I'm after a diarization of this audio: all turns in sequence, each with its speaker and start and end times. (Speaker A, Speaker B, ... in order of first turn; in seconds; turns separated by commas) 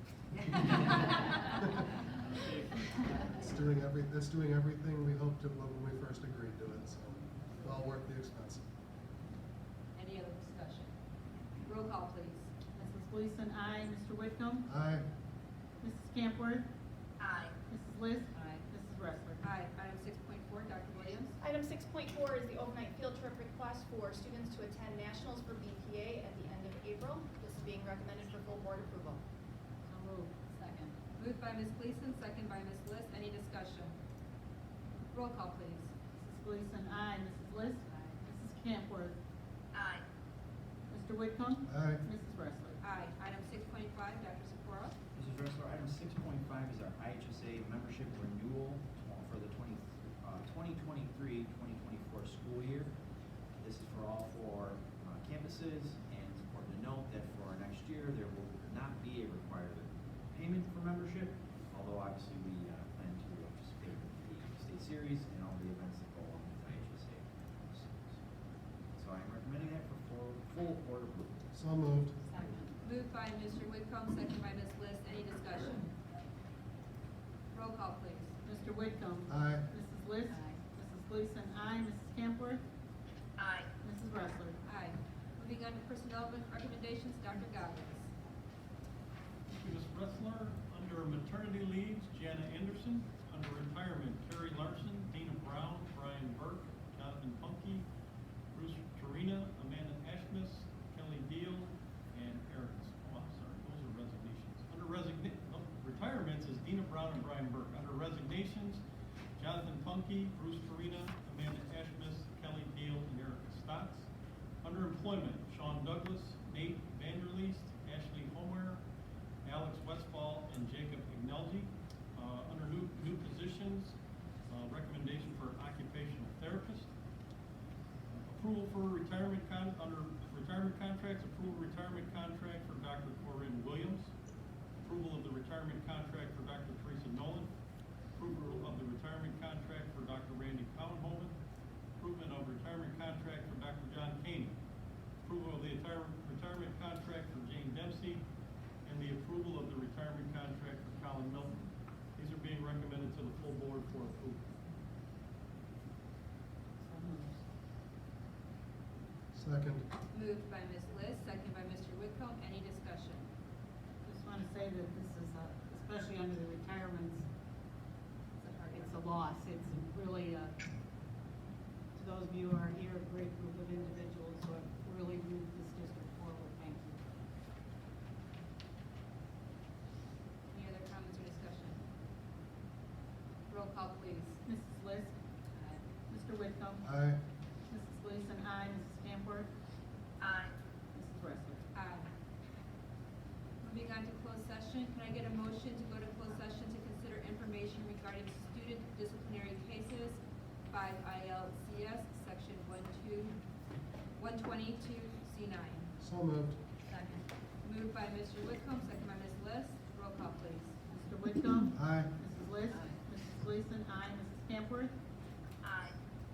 Speaker A: 0.3-1.3, Speaker B: 3.3-8.7, Speaker C: 9.9-10.9, Speaker C: 11.6-12.5, Speaker A: 12.7-14.7, Speaker B: 14.7-15.1, Speaker A: 15.8-16.7, Speaker D: 17.2-17.5, Speaker A: 17.6-19.4, Speaker C: 18.3-18.6, Speaker C: 19.4-21.4, Speaker D: 21.4-29.2, Speaker A: 29.9-30.9, Speaker C: 31.1-34.0, Speaker C: 35.1-35.9, Speaker A: 36.2-39.1, Speaker D: 39.7-40.0, Speaker A: 40.9-42.8, Speaker B: 41.7-42.0, Speaker C: 42.8-45.0, Speaker E: 45.1-52.9, Speaker E: 53.6-68.2, Speaker E: 69.0-71.4, Speaker B: 71.5-72.5, Speaker A: 72.3-72.6, Speaker C: 72.8-75.9, Speaker C: 77.5-78.4, Speaker A: 78.4-82.6, Speaker B: 79.3-79.7, Speaker D: 83.4-83.7, Speaker A: 83.8-84.6, Speaker C: 84.6-88.1, Speaker F: 89.5-97.8, Speaker F: 98.5-108.8, Speaker F: 109.4-114.1, Speaker F: 114.6-118.8, Speaker F: 119.4-123.9, Speaker F: 124.5-126.9, Speaker F: 128.1-134.1, Speaker F: 134.8-137.5, Speaker F: 138.2-141.3, Speaker F: 142.0-144.5, Speaker F: 145.2-148.2, Speaker F: 148.8-151.6, Speaker F: 152.2-154.4, Speaker A: 156.8-157.4, Speaker B: 159.3-159.8, Speaker C: 160.1-163.3, Speaker A: 164.0-167.3, Speaker C: 168.4-168.9, Speaker A: 168.7-170.6, Speaker A: 171.9-177.0, Speaker C: 180.5-181.8, Speaker C: 183.5-184.4, Speaker A: 184.4-185.2, Speaker A: 186.1-186.8, Speaker B: 186.8-187.2, Speaker A: 187.7-189.5, Speaker D: 190.2-190.5, Speaker A: 190.9-191.6, Speaker C: 191.7-192.1, Speaker C: 193.6-203.4, Speaker C: 204.2-205.9, Speaker B: 206.0-206.6, Speaker C: 206.9-210.8, Speaker A: 210.9-214.9, Speaker B: 211.7-212.1, Speaker D: 215.6-215.9